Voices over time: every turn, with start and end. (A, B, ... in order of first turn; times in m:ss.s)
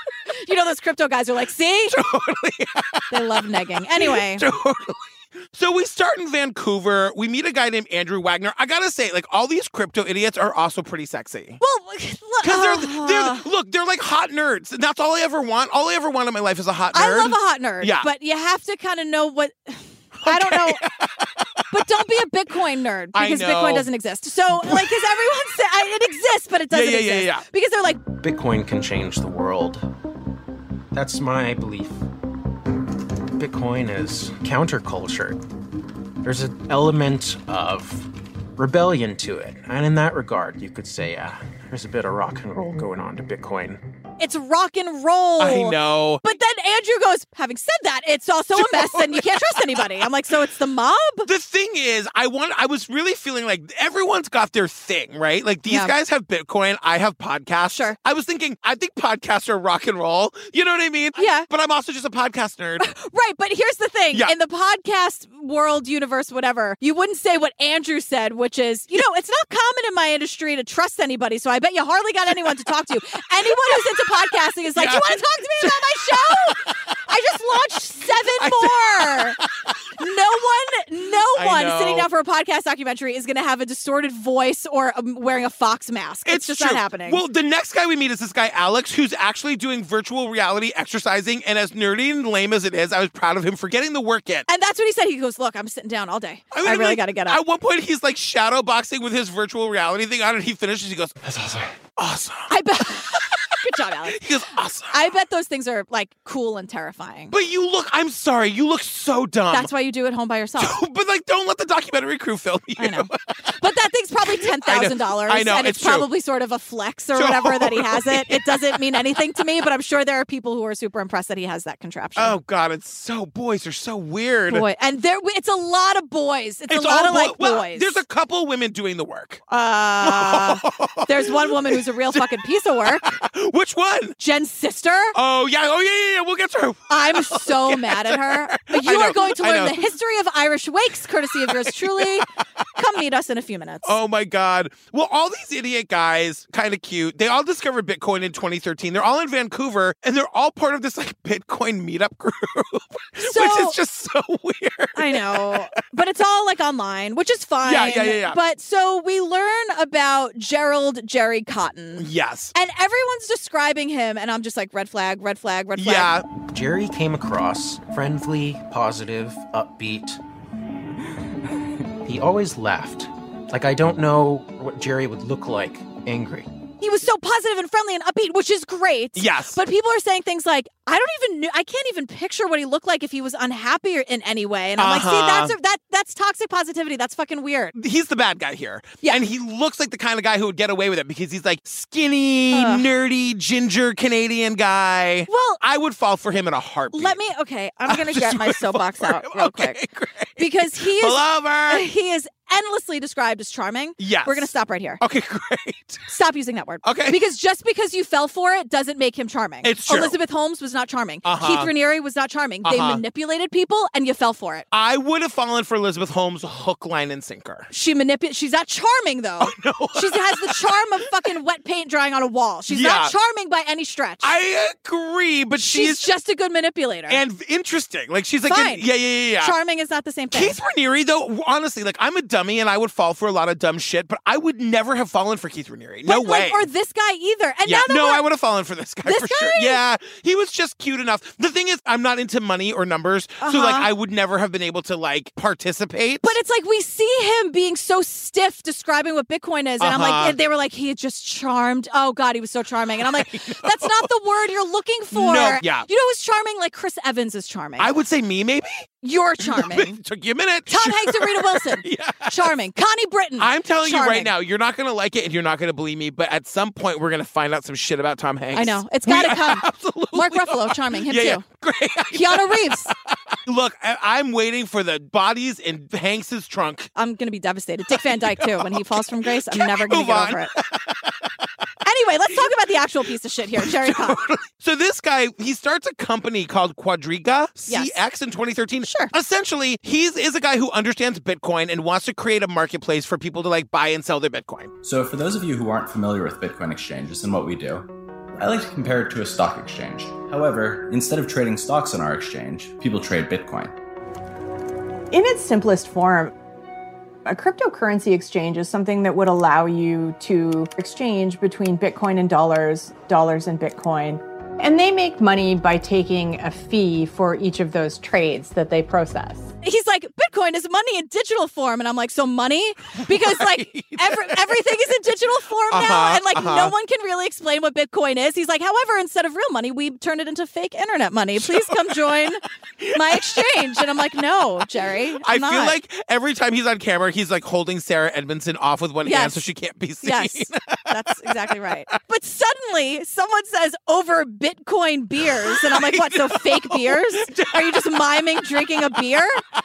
0:00.3-0:02.0 A
0:01.9-0:03.4 B
0:03.1-0:04.4 A
0:04.0-0:11.6 B
0:11.6-0:13.4 A
0:12.4-0:18.1 B
0:16.9-0:20.8 A
0:20.2-0:21.8 B
0:21.7-0:28.0 A
0:23.1-0:23.9 B
0:24.6-0:25.0 B
0:26.7-0:27.4 B
0:28.2-0:29.9 C
0:30.9-0:32.0 C
0:33.4-0:35.4 C
0:36.2-0:43.8 C
0:44.2-0:51.3 A
0:45.4-0:46.2 B
0:48.6-0:50.0 B
0:51.3-1:02.9 B
0:55.7-0:55.9 A
1:01.2-1:01.5 A
1:02.8-1:19.4 A
1:14.8-1:17.0 B
1:18.4-1:19.7 B
1:20.0-1:27.2 A
1:21.4-1:22.1 B
1:26.3-1:34.5 B
1:34.5-1:37.4 A
1:36.5-1:42.5 B
1:42.5-1:44.2 A
1:44.1-1:45.0 B
1:44.9-1:47.3 A
1:47.3-1:49.7 B
1:49.5-1:50.8 A
1:50.6-1:53.5 B
1:52.8-1:53.1 A
1:53.6-2:02.4 A
1:54.3-1:56.1 B
1:57.2-1:59.2 B
2:02.2-2:04.6 B
2:04.5-2:08.0 A
2:06.7-2:09.4 B
2:09.5-2:13.1 A
2:10.0-2:14.2 B
2:14.2-2:15.2 A
2:15.2-2:19.9 B
2:16.9-2:22.2 A
2:21.4-2:22.2 B
2:22.8-2:23.9 A
2:23.8-2:35.6 B
2:33.2-2:33.8 A
2:35.0-2:46.1 A
2:37.6-2:38.4 B
2:42.0-2:42.5 B
2:45.8-2:46.3 B
2:46.4-2:50.2 C
2:52.0-2:56.5 C
2:56.8-3:07.7 A
2:59.2-2:59.6 B
3:04.8-3:05.5 B
3:07.8-3:17.2 B
3:12.5-3:12.8 A
3:15.3-3:15.6 A
3:16.9-3:19.8 A
3:17.9-3:21.8 B
3:20.4-3:25.0 A
3:24.0-3:26.0 B
3:26.1-3:34.7 A
3:26.8-3:27.2 B
3:29.6-3:30.2 B
3:31.2-3:31.7 B
3:32.6-3:33.0 B
3:34.7-3:37.7 B
3:37.7-3:44.3 A
3:39.4-3:40.7 B
3:42.7-3:43.2 B
3:44.2-3:46.1 B
3:45.6-3:47.2 A
3:47.1-3:49.6 B
3:48.5-3:48.9 A
3:49.4-3:50.6 A
3:50.3-3:56.6 B
3:56.1-3:58.2 A
3:57.7-4:06.4 B
3:59.0-3:59.8 A
4:03.4-4:03.9 A
4:06.2-4:17.9 A
4:09.8-4:10.4 B
4:13.1-4:14.1 B
4:15.1-4:15.9 B
4:17.8-4:18.8 B
4:19.0-4:20.0 A
4:19.4-4:22.3 B
4:20.7-4:24.3 A
4:23.4-4:36.9 B
4:28.5-4:31.4 A
4:32.1-4:32.9 A
4:37.0-4:40.5 A
4:38.0-4:41.1 B
4:41.8-4:44.2 A
4:43.6-4:54.7 B
4:47.7-4:48.0 A
4:48.8-4:49.1 A
4:54.8-5:03.7 D
5:05.1-5:06.3 E
5:07.3-5:19.5 E
5:19.6-5:32.4 A
5:23.1-5:24.8 B
5:25.7-5:26.7 B
5:31.4-5:32.0 B
5:32.8-5:33.6 B
5:32.9-5:35.8 A
5:35.2-5:40.8 B
5:39.0-5:39.4 A
5:40.0-5:49.4 A
5:45.4-5:47.8 B